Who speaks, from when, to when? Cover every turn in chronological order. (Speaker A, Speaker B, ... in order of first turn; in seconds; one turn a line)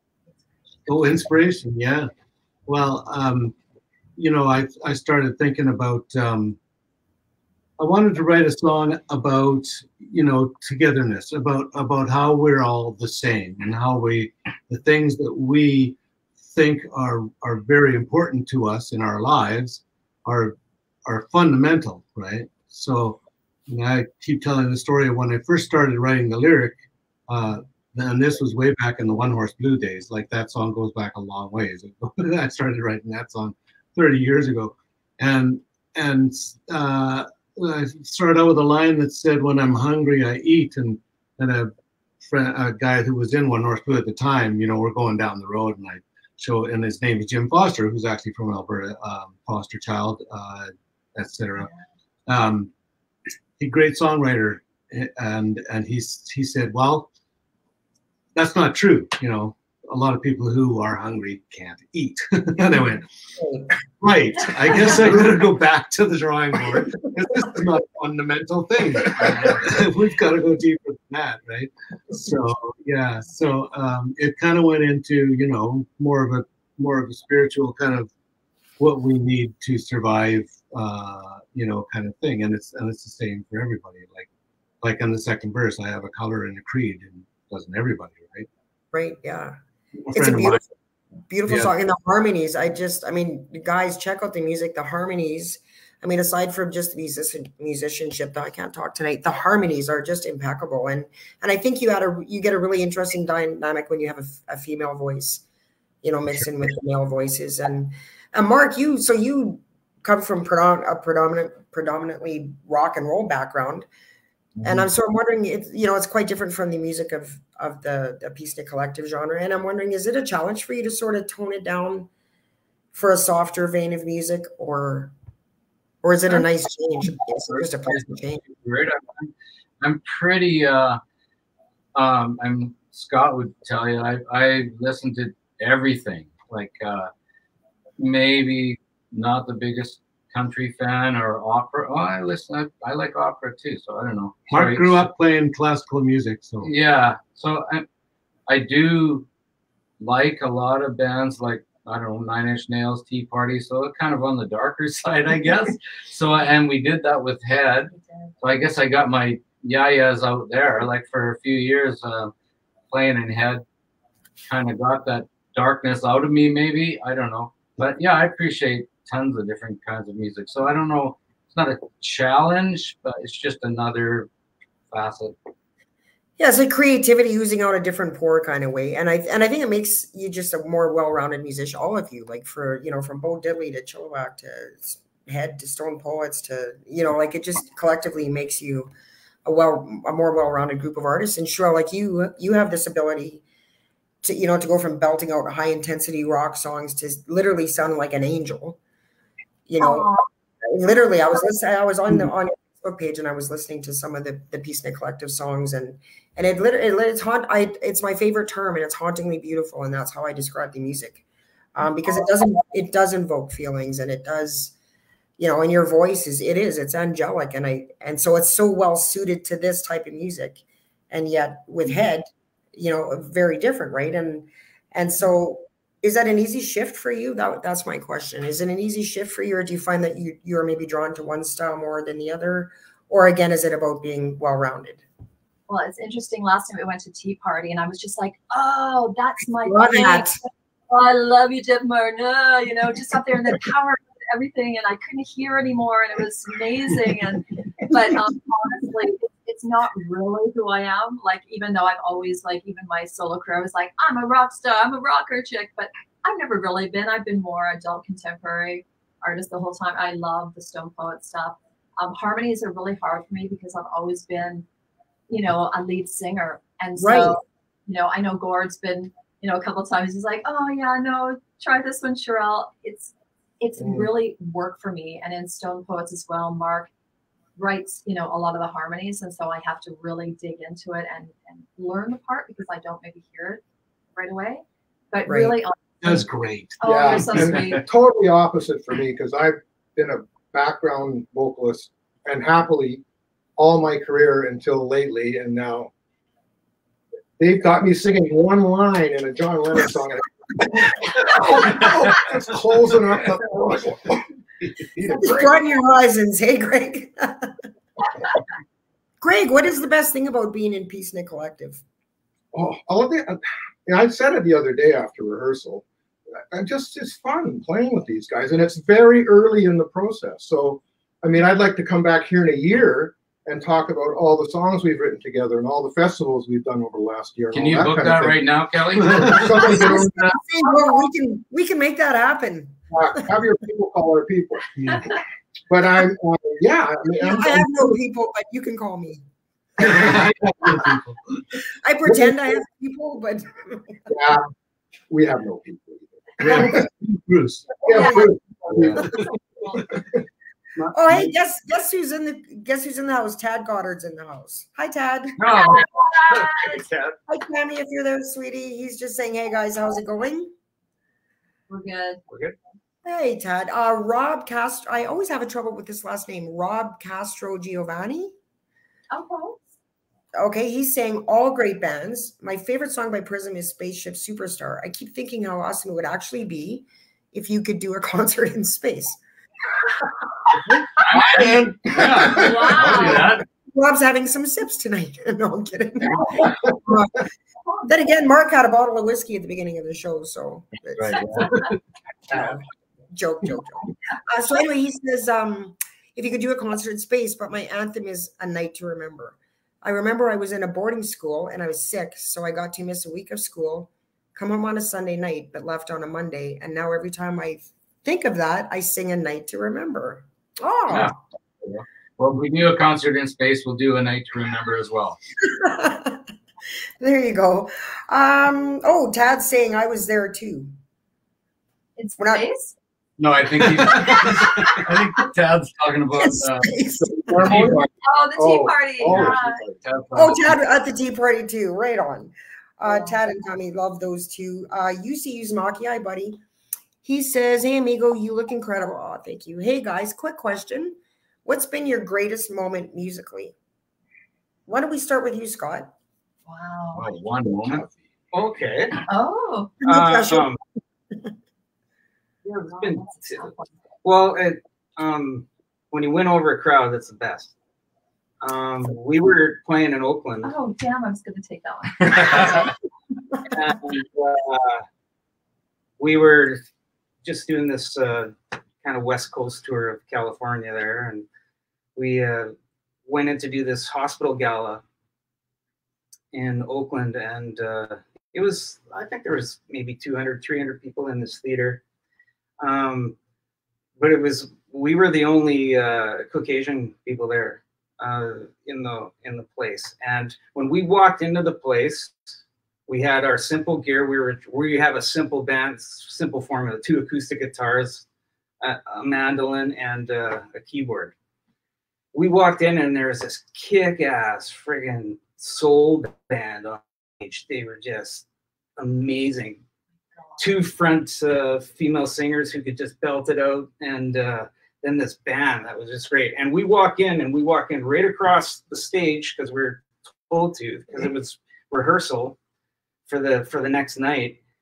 Speaker A: 0.9-2.1
Speaker A: 2.7-3.5
Speaker A: 4.2-6.6
Speaker A: 7.8-41.7
Speaker A: 42.2-51.7
Speaker A: 52.3-52.7
Speaker A: 53.6-57.1
Speaker A: 58.4-63.1
Speaker B: 63.4-63.7
Speaker A: 64.0-78.1
Speaker A: 78.8-84.3
Speaker A: 84.8-88.5
Speaker B: 88.9-89.6
Speaker A: 90.0-90.6
Speaker B: 90.1-90.7
Speaker B: 91.3-105.4
Speaker B: 106.0-113.9
Speaker B: 114.6-122.1
Speaker B: 122.9-125.1
Speaker B: 126.0-128.4
Speaker C: 127.9-131.0
Speaker C: 131.9-137.1
Speaker C: 138.0-145.1
Speaker A: 144.5-146.7
Speaker C: 146.6-147.8
Speaker C: 148.5-149.3
Speaker C: 150.0-162.3
Speaker D: 157.9-158.3
Speaker C: 162.9-163.6
Speaker C: 164.4-174.3
Speaker C: 174.9-175.4
Speaker B: 176.4-188.9
Speaker B: 189.4-193.4
Speaker B: 194.2-198.8
Speaker B: 199.7-200.1
Speaker D: 199.8-200.2
Speaker B: 200.7-211.2
Speaker B: 211.8-214.7
Speaker B: 215.4-235.0
Speaker D: 235.7-240.3
Speaker B: 239.6-240.4
Speaker D: 240.9-264.7
Speaker D: 265.3-276.9
Speaker B: 267.0-267.4
Speaker D: 277.6-283.6
Speaker D: 284.1-286.2
Speaker B: 285.2-285.6
Speaker A: 286.0-287.8
Speaker D: 286.8-287.8
Speaker E: 286.8-293.0
Speaker E: 293.6-295.9
Speaker E: 297.4-304.2
Speaker E: 305.0-305.5
Speaker B: 305.2-307.6
Speaker B: 309.2-311.8
Speaker E: 312.5-315.9
Speaker E: 316.5-328.4
Speaker C: 327.5-330.0
Speaker A: 329.0-329.4
Speaker E: 329.3-330.1
Speaker B: 329.4-333.3
Speaker E: 332.9-334.7
Speaker A: 334.8-335.1
Speaker E: 335.7-337.7
Speaker B: 337.1-339.2
Speaker A: 339.8-341.4
Speaker B: 339.8-340.2
Speaker B: 341.7-344.1
Speaker E: 344.1-344.5
Speaker E: 345.1-346.9
Speaker A: 346.4-349.2
Speaker E: 347.8-349.2
Speaker D: 347.9-348.3
Speaker D: 349.1-349.9
Speaker A: 350.8-351.3
Speaker B: 350.9-355.4
Speaker C: 355.4-355.9
Speaker D: 355.5-356.8
Speaker F: 356.6-357.2
Speaker B: 357.3-360.5
Speaker D: 361.7-362.2
Speaker F: 362.3-362.6
Speaker B: 363.1-368.3
Speaker D: 369.1-369.6
Speaker B: 370.4-379.2
Speaker C: 381.0-383.4
Speaker E: 381.1-382.7
Speaker D: 382.1-383.3
Speaker B: 382.8-387.3
Speaker B: 387.8-391.5
Speaker C: 390.9-391.8
Speaker B: 392.3-411.1
Speaker C: 410.9-415.2
Speaker B: 415.4-416.2
Speaker B: 417.0-420.7
Speaker D: 422.0-422.7
Speaker B: 422.2-422.5
Speaker C: 423.2-426.8
Speaker D: 423.9-424.7
Speaker B: 426.1-427.6
Speaker E: 427.3-429.8
Speaker C: 427.4-427.8
Speaker D: 428.0-429.6
Speaker C: 429.1-430.6
Speaker B: 430.1-436.4
Speaker D: 432.9-433.2
Speaker B: 437.0-443.5
Speaker B: 444.7-445.9
Speaker D: 446.5-447.1
Speaker C: 446.9-447.9
Speaker F: 448.3-449.0
Speaker D: 449.1-449.8
Speaker F: 449.8-450.6
Speaker B: 449.8-450.5
Speaker D: 452.4-453.8
Speaker F: 452.7-453.5
Speaker F: 454.0-457.5
Speaker F: 458.4-460.5
Speaker D: 460.4-462.7
Speaker F: 463.5-464.9
Speaker F: 466.0-466.6
Speaker F: 467.2-471.2
Speaker F: 472.0-472.5
Speaker F: 473.1-474.8
Speaker F: 476.3-481.8
Speaker F: 482.6-483.2
Speaker F: 484.0-492.2
Speaker F: 492.9-498.1
Speaker F: 498.6-501.1
Speaker F: 502.1-508.2
Speaker F: 508.8-509.6
Speaker D: 510.2-510.4
Speaker F: 510.4-522.4
Speaker F: 523.1-524.4